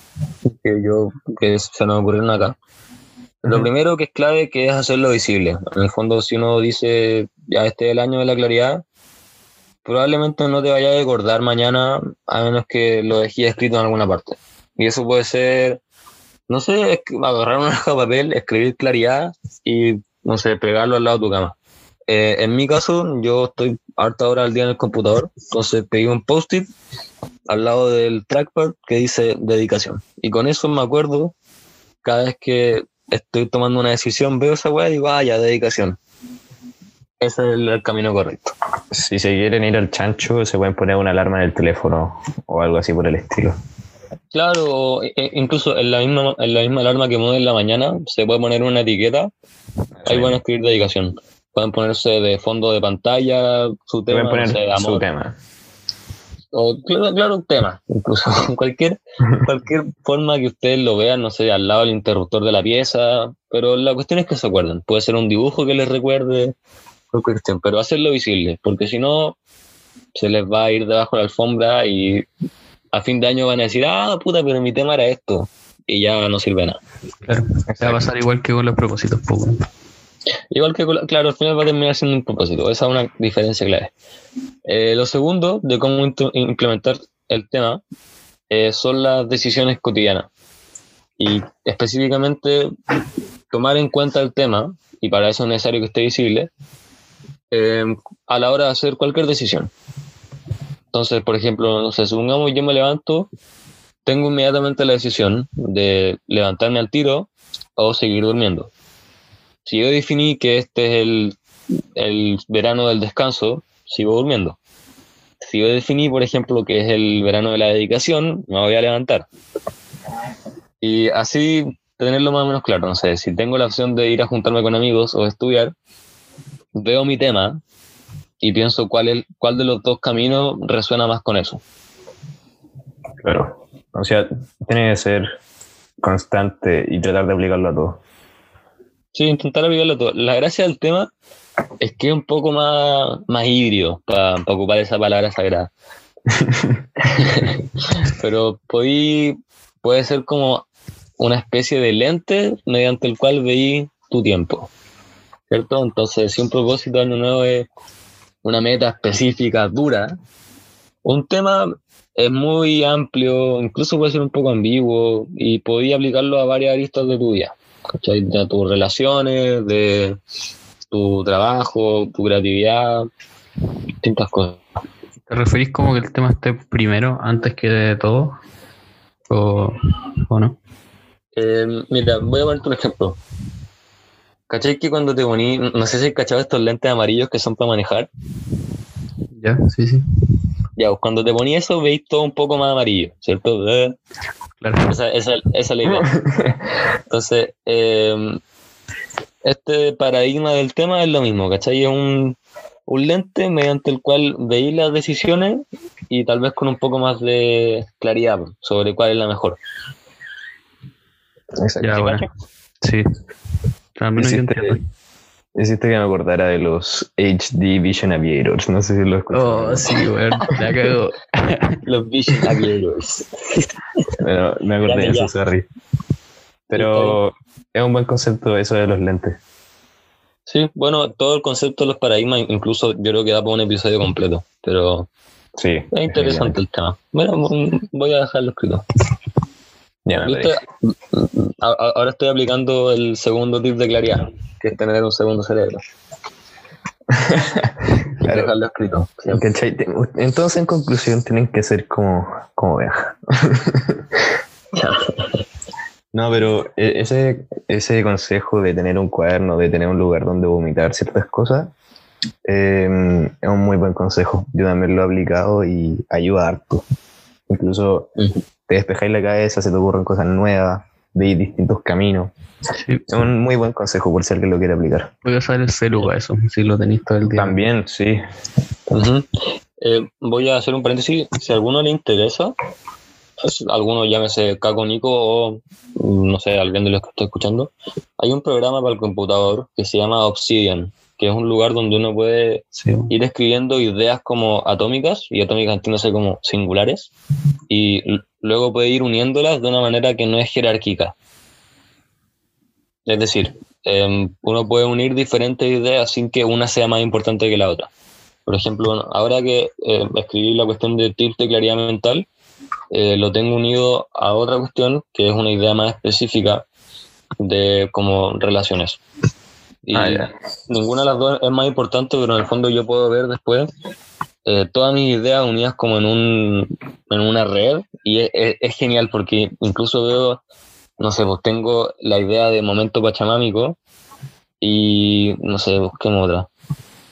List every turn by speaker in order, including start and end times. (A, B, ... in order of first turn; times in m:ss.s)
0:00.4-0:02.6 A
0:03.4-0:08.8 A
0:09.8-0:15.8 A
0:16.5-0:21.5 A
0:22.1-0:26.7 A
0:27.5-0:31.3 A
0:32.0-0:36.0 A
0:37.2-0:38.5 A
0:38.9-0:43.6 B
0:44.3-0:49.3 A
0:50.0-0:50.4 B
0:50.1-0:55.0 A
0:54.1-0:55.4 B
0:56.5-1:06.5 A
1:07.1-1:09.4 A
1:10.1-1:12.2 A
1:12.9-1:16.8 A
1:17.2-1:19.6 C
1:17.7-1:18.1 B
1:20.5-1:23.9 A
1:24.7-1:27.8 A
1:28.5-1:30.3 A
1:31.2-1:32.7 A
1:33.5-1:36.5 A
1:37.5-1:39.7 A
1:40.9-1:43.3 A
1:44.0-1:48.7 A
1:49.6-1:51.4 A
1:52.0-1:54.6 A
1:55.4-1:59.3 A
2:00.8-2:05.7 A
2:06.7-2:07.6 A
2:08.4-2:11.6 A
2:13.2-2:15.3 B
2:16.0-2:18.0 B
2:19.1-2:21.1 A
2:21.8-2:25.7 A
2:26.4-2:27.3 B
2:27.2-2:30.6 A
2:31.2-2:34.7 A
2:35.5-2:37.7 A
2:38.4-2:40.2 A
2:41.0-2:50.2 A
2:50.9-2:53.1 A
2:54.0-2:54.6 A
2:55.3-2:58.4 C
2:59.3-3:00.6 C
3:01.4-3:03.2 A
3:04.5-3:08.1 A
3:09.3-3:10.0 C
3:10.8-3:14.0 A
3:14.6-3:15.0 C
3:14.9-3:16.1 A
3:16.1-3:16.6 B
3:17.1-3:18.4 A
3:19.4-3:29.6 A
3:31.6-3:32.0 B
3:31.8-3:32.2 C
3:31.9-3:32.2 A
3:32.8-3:33.1 C
3:34.0-3:34.8 C
3:34.2-3:34.8 B
3:35.6-3:40.8 B
3:39.3-3:41.8 C
3:41.8-3:43.6 A
3:44.2-3:45.6 B
3:44.8-3:45.3 A
3:46.7-3:49.4 B
3:46.7-3:47.2 A
3:50.5-3:55.1 A
3:55.6-3:56.6 B
3:55.9-3:58.8 A
4:00.0-4:00.6 B
4:00.2-4:05.8 A
4:07.1-4:08.5 B
4:08.2-4:09.4 A
4:09.3-4:14.0 B
4:14.7-4:15.0 A
4:16.1-4:21.7 B
4:22.4-4:26.8 B
4:27.5-4:28.1 B
4:28.7-4:32.3 B
4:32.8-4:33.1 C
4:33.1-4:35.1 B
4:35.2-4:37.6 C
4:37.3-4:38.2 B
4:38.9-4:39.2 A
4:39.8-4:42.5 A
4:43.4-4:57.1 A
4:52.8-4:53.1 C
4:57.7-5:01.1 A
5:03.1-5:07.9 A
5:08.4-5:12.2 A
5:12.9-5:16.6 A
5:17.4-5:19.0 A
5:19.8-5:23.7 A
5:19.9-5:20.3 B
5:24.4-5:30.4 A
5:31.0-5:33.8 A
5:34.6-5:36.5 A